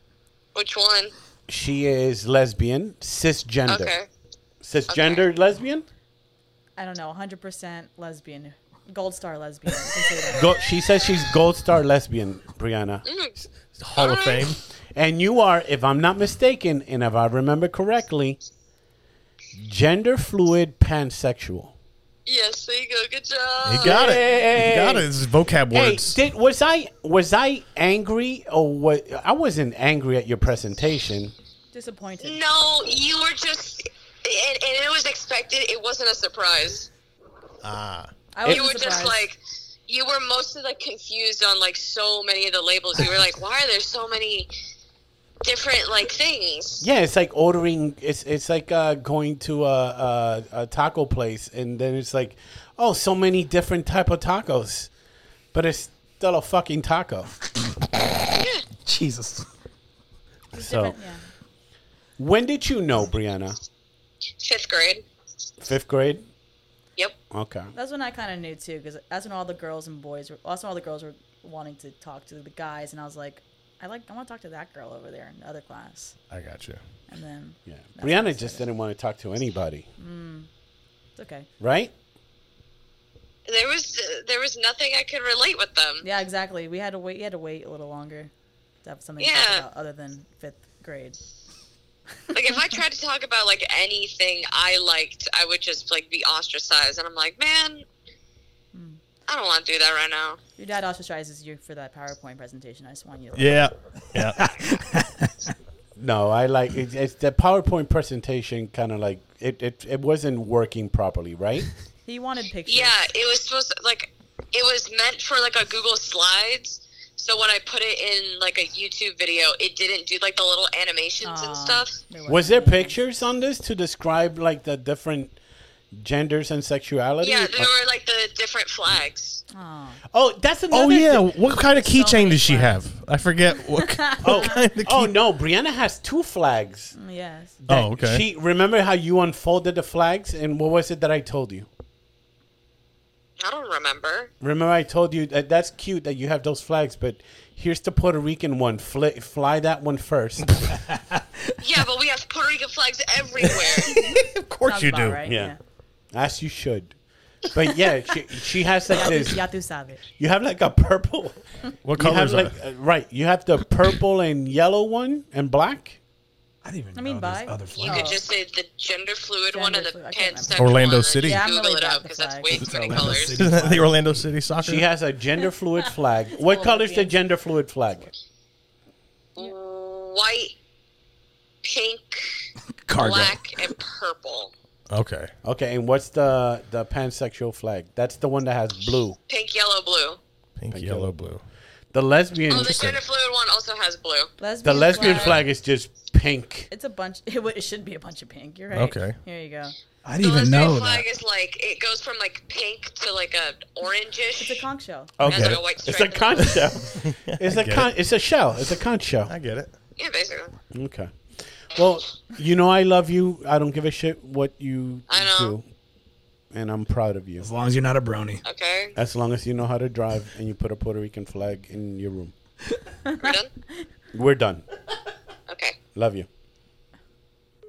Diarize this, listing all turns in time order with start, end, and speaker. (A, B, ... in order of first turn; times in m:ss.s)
0:00.5-0:01.1 A
0:01.5-0:03.9 B
0:03.6-0:04.1 A
0:04.6-0:05.8 B
0:04.9-0:05.3 A
0:06.8-0:10.5 C
0:10.3-0:13.0 B
0:13.0-0:13.4 A
0:13.8-0:14.6 D
0:13.9-0:14.5 A
0:14.9-0:18.4 B
0:19.6-0:21.7 B
0:22.2-0:24.1 A
0:23.6-0:26.2 D
0:23.8-0:25.1 B
0:25.7-0:31.3 B
0:31.7-0:32.4 C
0:32.2-0:36.9 A
0:37.6-0:38.1 D
0:38.3-0:39.2 C
0:38.4-0:44.5 A
0:45.4-0:46.8 A
0:46.8-0:54.9 B
0:55.5-0:57.3 B
0:58.3-0:58.6 A
0:58.8-0:59.4 E
1:00.5-1:01.2 C
1:00.5-1:00.9 B
1:02.2-1:03.6 B
1:04.4-1:05.0 A
1:05.6-1:06.2 B
1:07.3-1:07.7 B
1:07.7-1:16.2 C
1:16.3-1:16.8 D
1:17.1-1:18.6 C
1:17.7-1:19.9 B
1:20.0-1:20.5 C
1:21.2-1:21.5 C
1:21.6-1:21.9 B
1:23.5-1:26.0 A
1:26.0-1:28.3 C
1:28.8-1:31.2 C
1:29.2-1:29.6 A
1:32.3-1:32.6 C
1:32.3-1:37.8 A
1:38.7-1:39.0 C
1:39.3-1:40.4 A
1:40.6-1:43.7 C
1:43.4-1:44.4 D
1:44.2-1:45.5 E
1:46.0-1:51.7 B
1:52.0-1:53.0 C
1:52.7-2:02.0 A
2:01.2-2:03.0 C
2:02.3-2:05.4 B
2:05.9-2:07.7 B
2:07.2-2:09.4 A
2:09.5-2:10.0 C
2:10.1-2:11.3 B
2:10.7-2:15.1 D
2:11.6-2:12.8 C
2:13.8-2:14.6 C
2:14.2-2:16.9 B
2:16.9-2:17.6 C
2:17.6-2:21.7 B
2:17.7-2:18.2 D
2:23.4-2:24.3 A
2:24.4-2:30.7 B
2:30.9-2:31.4 E
2:31.6-2:34.0 A
2:33.5-2:35.2 D
2:34.6-2:35.6 C
2:35.2-2:35.5 B
2:36.1-2:39.4 B
2:38.9-2:40.0 C
2:40.2-2:41.4 B
2:41.8-2:42.5 D
2:42.0-2:46.0 B
2:46.6-2:48.1 E
2:46.9-2:48.2 C
2:47.8-2:53.4 A
2:49.5-2:52.9 C
2:50.6-2:51.4 D
2:52.5-2:54.2 E
2:53.3-2:54.9 D
2:54.6-2:58.1 B
2:56.4-2:57.1 C
2:59.4-3:00.5 A
3:01.6-3:02.3 A
3:02.8-3:03.5 E
3:02.9-3:04.5 A
3:04.9-3:05.3 D
3:05.4-3:09.2 B
3:09.3-3:10.2 A
3:10.6-3:11.4 D
3:10.7-3:11.1 B
3:11.9-3:13.0 B
3:12.5-3:14.3 A
3:14.4-3:15.4 C
3:14.6-3:16.7 B
3:14.9-3:15.4 A
3:16.7-3:19.7 C
3:18.7-3:19.2 D
3:20.0-3:21.0 E
3:20.2-3:24.7 A
3:24.4-3:25.1 C
3:25.2-3:29.3 B
3:25.2-3:26.7 A
3:25.2-3:25.6 D
3:27.0-3:27.9 D
3:29.3-3:29.7 D
3:30.0-3:30.5 A
3:30.7-3:31.1 B
3:31.7-3:35.6 B
3:35.1-3:35.6 A
3:36.5-3:37.5 B
3:37.4-3:38.4 E
3:38.4-3:39.0 A
3:39.0-3:42.3 B
3:43.0-3:43.4 C
3:43.2-3:43.5 A
3:44.1-3:44.6 B
3:45.5-3:45.8 A
3:45.9-3:46.3 B